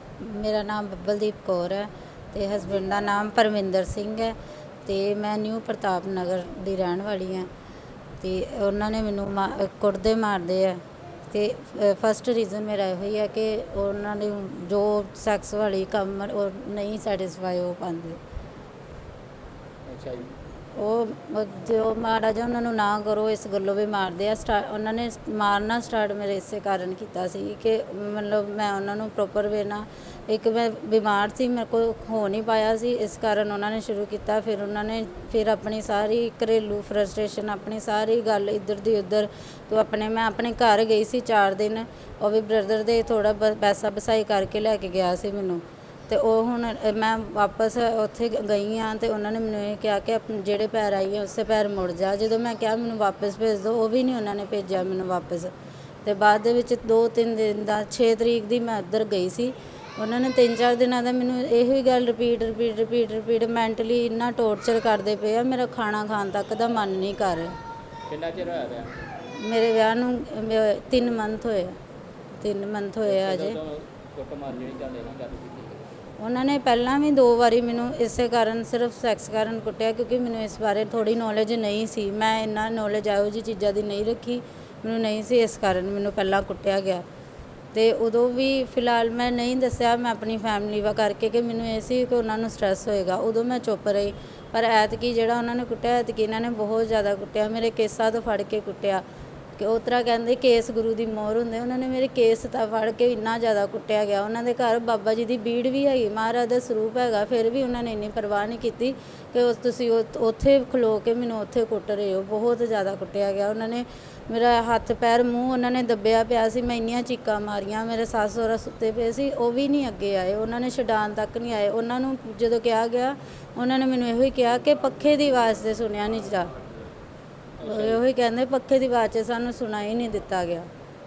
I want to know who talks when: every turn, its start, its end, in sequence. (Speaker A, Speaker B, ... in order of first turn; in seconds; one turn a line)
Speaker A: 0.2-4.3
Speaker A: 4.8-7.5
Speaker A: 8.2-18.2
Speaker B: 19.9-20.3
Speaker A: 20.8-55.5
Speaker A: 56.0-67.5
Speaker B: 68.1-69.1
Speaker A: 69.4-71.7
Speaker A: 72.4-73.6
Speaker B: 73.0-75.8
Speaker A: 76.2-87.0
Speaker A: 87.7-99.0
Speaker A: 99.6-126.5
Speaker B: 127.6-128.0
Speaker A: 127.6-130.7